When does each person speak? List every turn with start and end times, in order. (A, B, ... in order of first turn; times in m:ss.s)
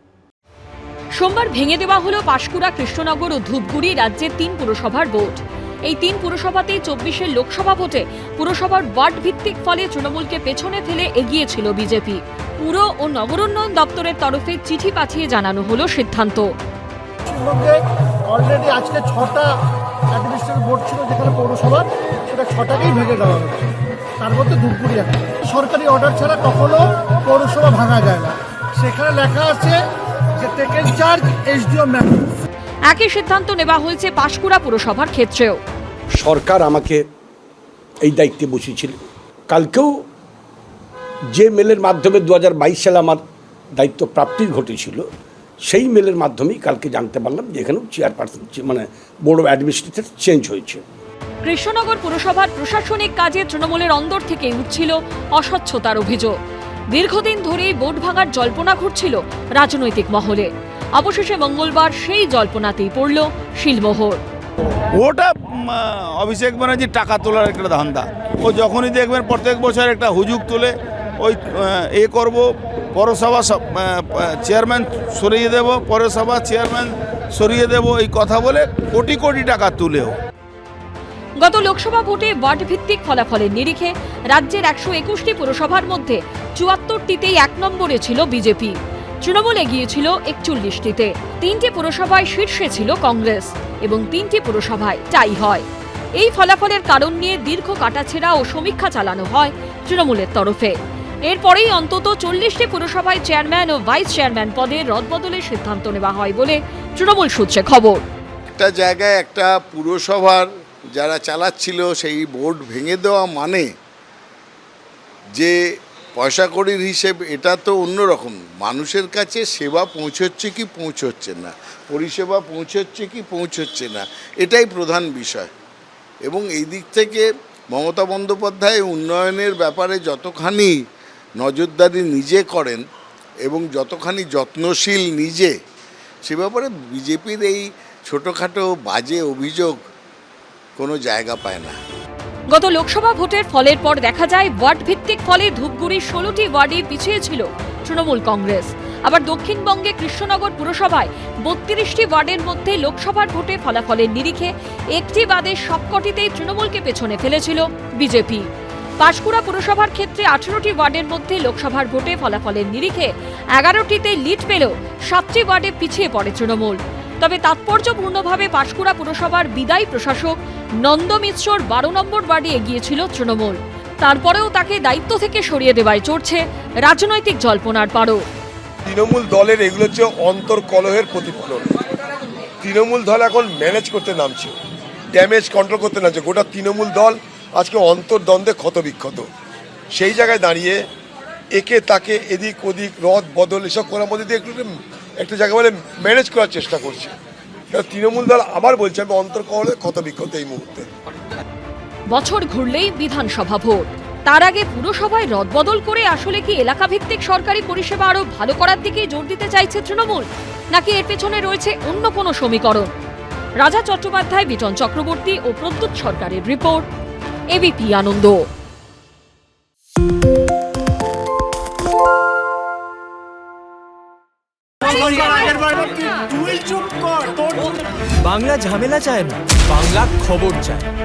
0:01.1-0:16.5 A
0:17.2-0:19.5 B
0:20.1-0:23.7 B
0:24.2-0:29.8 B
0:30.4-0:32.2 B
0:32.9-0:35.6 A
0:36.1-0:37.0 C
0:38.0-0:40.0 C
0:41.3-0:43.2 C
0:43.7-0:45.1 C
0:45.6-0:50.8 C
0:51.4-0:56.4 A
0:56.9-1:04.2 A
1:05.0-1:05.3 D
1:06.2-1:11.4 D
1:12.0-1:12.4 D
1:12.9-1:13.8 D
1:14.4-1:20.1 D
1:21.4-1:35.6 A
1:36.2-1:48.0 A
1:48.6-1:53.7 E
1:56.2-2:05.5 E
2:06.2-2:10.7 E
2:11.4-2:12.8 E
2:13.4-2:15.5 E
2:16.2-2:19.7 E
2:20.8-2:21.8 E
2:22.5-2:38.5 A
2:39.0-2:58.2 A
2:58.9-3:01.7 F
3:02.6-3:04.5 F
3:05.1-3:09.3 F
3:09.9-3:10.8 F
3:11.5-3:17.1 F
3:17.7-3:20.8 F
3:22.1-3:32.9 A
3:33.6-3:36.9 A
3:37.5-3:38.4 A
3:48.2-3:50.9 G